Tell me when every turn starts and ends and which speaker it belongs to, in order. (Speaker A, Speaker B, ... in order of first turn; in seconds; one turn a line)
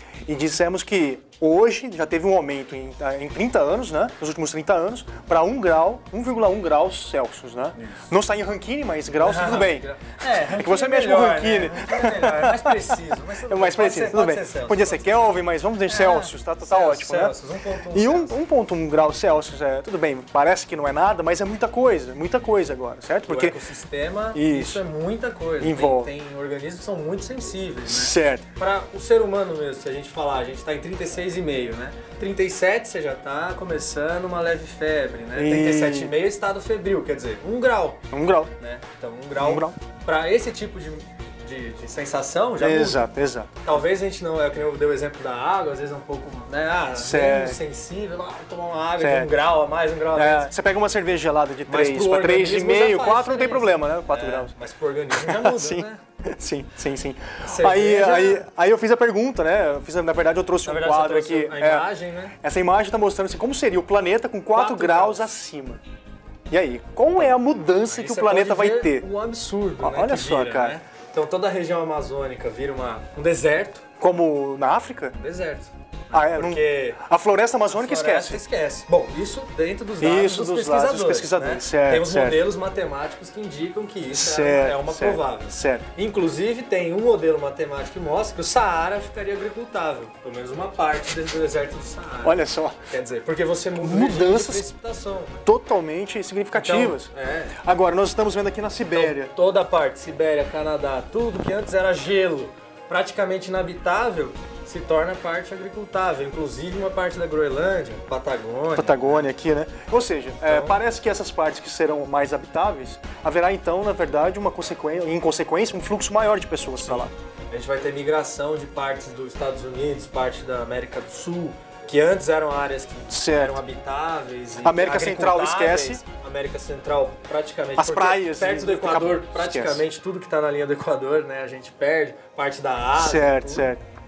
Speaker A: 0.3-17.4
Speaker B: 7.8-8.1
Speaker B: 9.2-18.4
Speaker A: 17.9-23.6
Speaker B: 23.3-38.0
Speaker A: 24.3-24.8
Speaker A: 25.6-26.1
Speaker A: 27.9-28.4
Speaker A: 35.4-36.1
Speaker A: 38.1-38.5
Speaker B: 38.6-43.1
Speaker A: 39.4-39.8
Speaker A: 42.6-43.6
Speaker B: 43.6-50.5
Speaker A: 46.9-47.6
Speaker A: 49.0-49.3
Speaker A: 50.1-54.5
Speaker B: 51.7-56.0
Speaker A: 55.1-61.9
Speaker B: 57.4-58.5
Speaker B: 60.6-62.4
Speaker A: 62.4-65.8
Speaker B: 64.5-65.3
Speaker A: 66.5-69.1
Speaker B: 67.8-73.9
Speaker A: 69.8-70.8
Speaker A: 74.0-75.2
Speaker B: 75.1-77.0
Speaker A: 76.1-78.4
Speaker B: 77.7-95.4
Speaker A: 80.0-82.5
Speaker A: 84.1-85.9
Speaker A: 92.2-92.8
Speaker A: 93.8-94.6
Speaker A: 95.5-99.3
Speaker B: 96.5-97.6
Speaker B: 98.9-109.3
Speaker A: 108.8-117.1
Speaker B: 110.5-110.8
Speaker B: 116.8-133.7
Speaker A: 123.1-123.6
Speaker A: 124.6-126.0
Speaker A: 127.8-129.8
Speaker A: 133.0-133.8